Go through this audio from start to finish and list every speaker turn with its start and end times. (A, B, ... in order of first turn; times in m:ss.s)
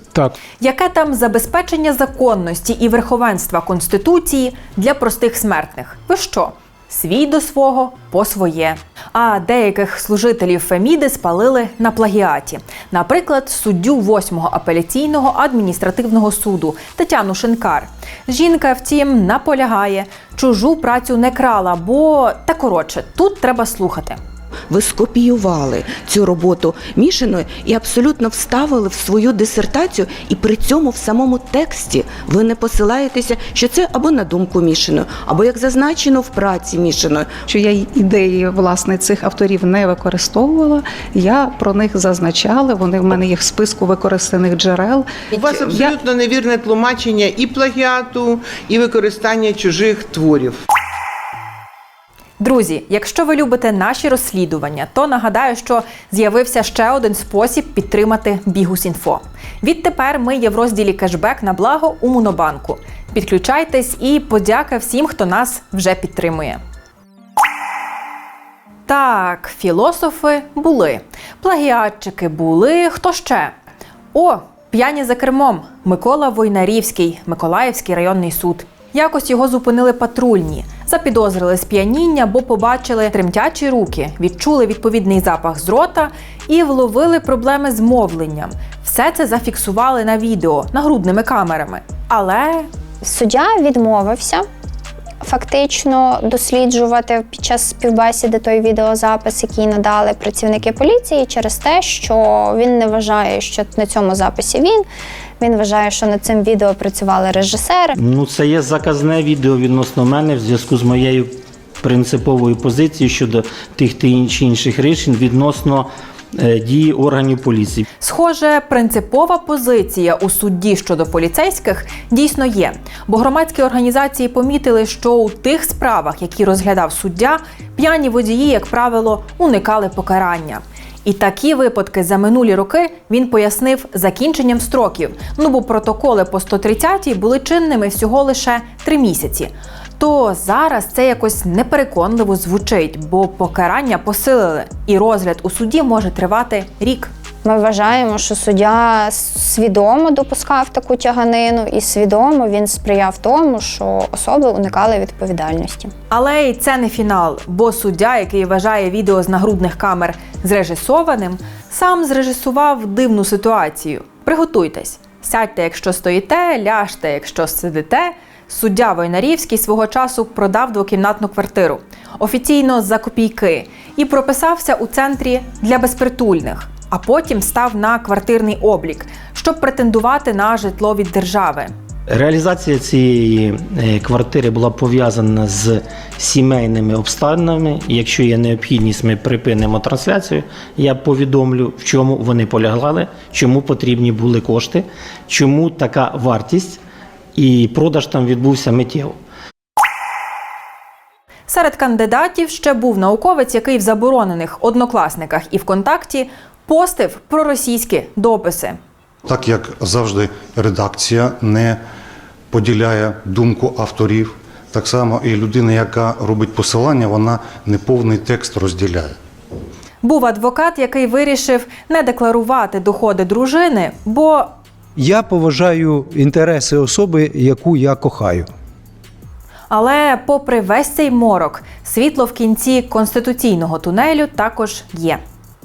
0:00.6-0:24.2 A
0:24.7-0:37.3 B
0:37.5-0:45.9 C
0:45.3-0:50.6 D
0:52.4-1:06.6 A
1:08.9-1:13.5 A
1:14.1-1:32.7 A
1:33.0-1:34.4 E
1:35.2-1:44.8 E
1:45.4-1:48.0 E
1:48.0-1:57.8 F
1:58.0-2:27.1 A
2:27.4-2:35.9 E
2:36.1-3:01.7 A
3:02.1-3:16.8 F
3:17.4-3:19.2 F
3:21.5-3:28.8 A
3:29.2-3:31.8 G
3:32.5-3:39.2 G
3:40.0-3:44.5 A
3:45.0-3:48.5 H
3:49.7-3:55.2 A